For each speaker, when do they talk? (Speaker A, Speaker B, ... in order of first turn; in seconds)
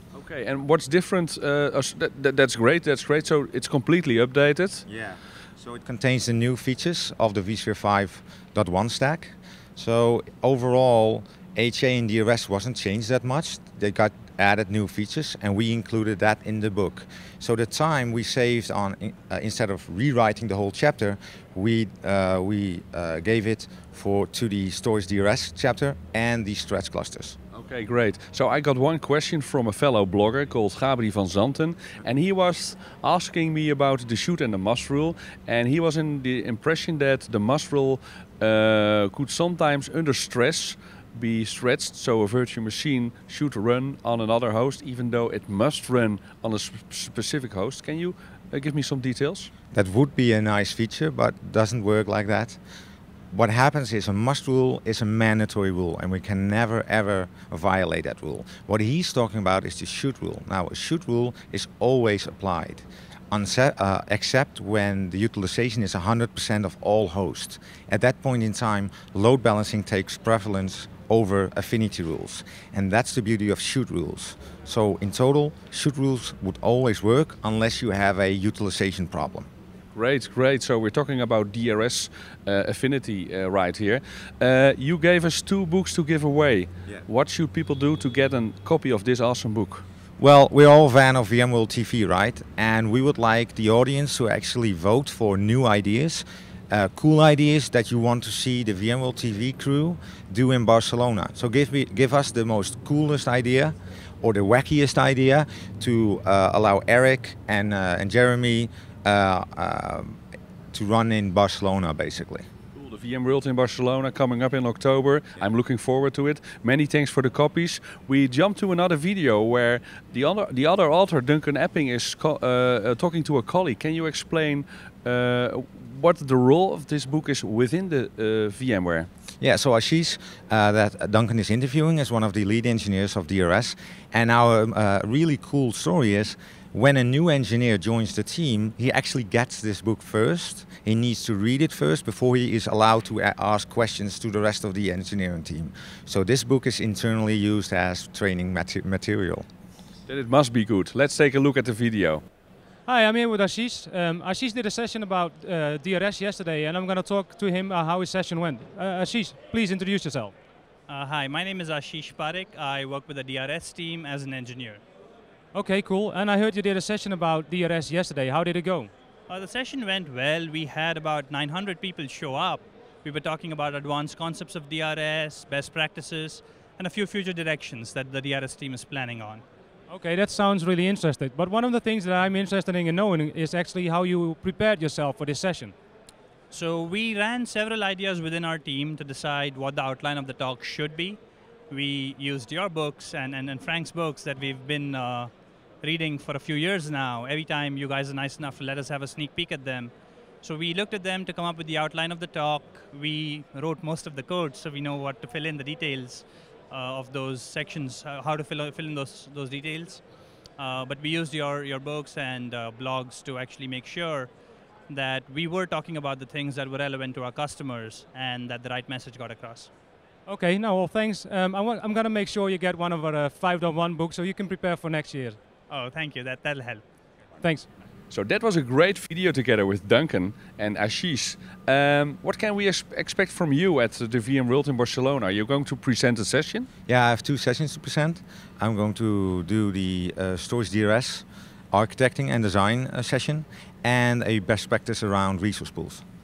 Speaker A: 0.1-4.8, 27.5-49.5, 79.9-89.8, 112.8-129.1, 150.1-152.2, 228.1-236.7
Speaker B: 4.9-27.4, 49.7-52.6, 53.3-79.5, 90.2-110.2, 110.7-112.5, 129.4-149.5, 236.9-246.0
Speaker C: 152.9-160.3, 165.5-168.9, 179.9-185.7, 220.3-225.4, 227.4-227.7
Speaker D: 160.9-164.8, 169.3-179.4, 186.5-191.2, 191.7-195.3, 195.8-210.0, 210.6-214.3, 214.9-219.7, 225.7-226.8